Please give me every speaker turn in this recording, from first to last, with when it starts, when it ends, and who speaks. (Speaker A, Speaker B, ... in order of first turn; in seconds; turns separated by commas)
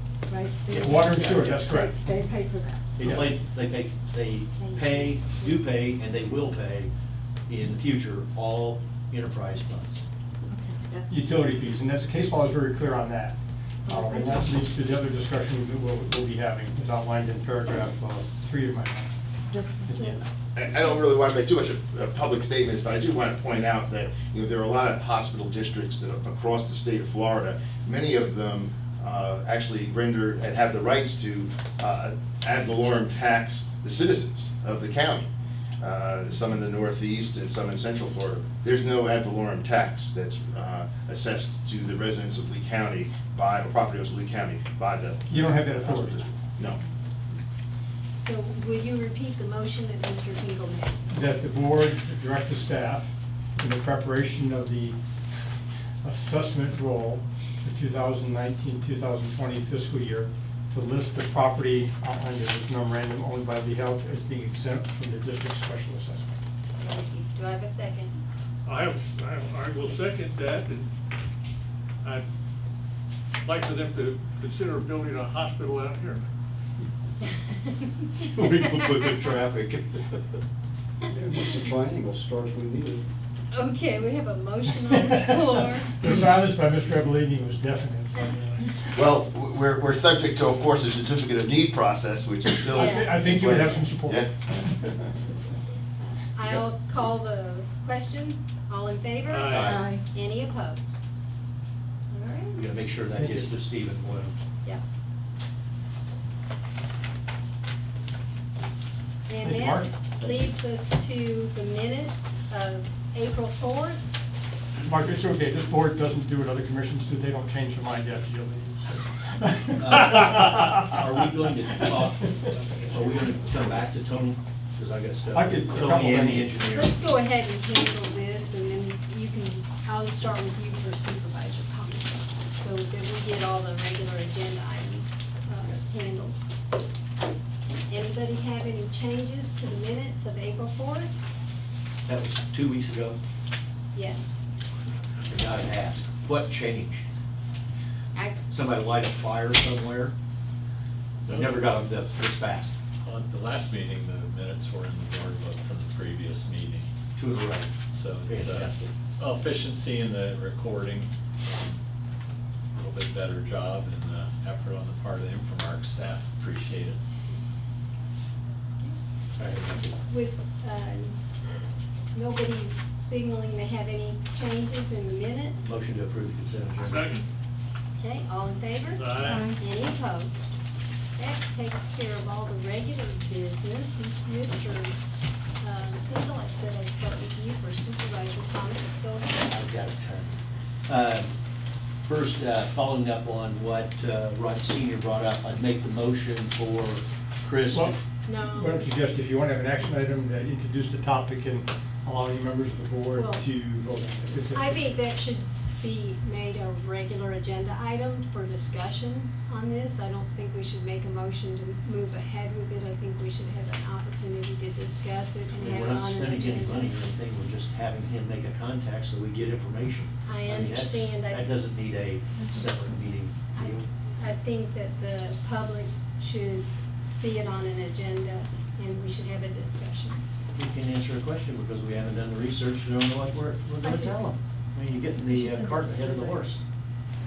Speaker A: 0.5-2.8, Speaker B: 0.7-1.1, Speaker C: 0.8-1.9, Speaker B: 3.0-6.9, Speaker C: 3.0-3.3, Speaker D: 4.6-5.2, Speaker B: 7.5-10.0, Speaker A: 10.5-11.1, Speaker C: 11.1-19.1, Speaker A: 19.5-20.0, Speaker C: 19.9-20.2, Speaker E: 20.6-35.3, Speaker E: 35.8-46.8, Speaker C: 45.3-46.2, Speaker D: 48.2-51.0, Speaker C: 51.1-53.1, Speaker C: 53.6-55.0, Speaker C: 56.0-66.4, Speaker D: 66.8-68.2, Speaker F: 68.7-70.9, Speaker F: 73.5-76.2, Speaker B: 78.3-80.1, Speaker G: 81.1-83.1, Speaker D: 83.5-85.9, Speaker C: 86.0-88.7, Speaker E: 88.9-95.0, Speaker C: 92.7-94.3, Speaker D: 92.8-93.2, Speaker D: 96.0-100.9, Speaker F: 99.3-99.7, Speaker B: 99.5-99.9, Speaker A: 99.7-100.0, Speaker D: 102.1-102.7, Speaker B: 102.6-104.3, Speaker C: 103.2-103.5, Speaker D: 109.3-114.1, Speaker C: 109.4-109.9, Speaker C: 114.8-120.4, Speaker B: 119.8-127.0, Speaker C: 125.3-126.6, Speaker D: 126.7-136.3, Speaker D: 137.9-141.1, Speaker B: 142.1-143.2, Speaker D: 143.9-144.3, Speaker B: 145.3-147.0, Speaker B: 148.4-150.1, Speaker B: 151.2-152.8, Speaker H: 151.3-151.6, Speaker H: 153.0-156.9, Speaker B: 157.2-158.9, Speaker H: 157.9-161.8, Speaker H: 162.7-167.0, Speaker B: 169.4-170.0, Speaker D: 170.1-171.2, Speaker D: 172.1-175.7, Speaker B: 175.6-177.2, Speaker F: 176.8-177.2, Speaker D: 178.0-180.5, Speaker F: 178.9-179.6, Speaker D: 181.2-185.0, Speaker D: 185.6-189.5, Speaker B: 189.5-191.3, Speaker B: 192.1-198.0, Speaker C: 197.7-204.8, Speaker D: 198.3-198.9, Speaker D: 203.1-203.4, Speaker D: 204.5-216.9, Speaker B: 215.6-223.9, Speaker D: 220.3-221.5, Speaker D: 223.5-230.2, Speaker B: 230.6-236.6, Speaker A: 235.3-236.4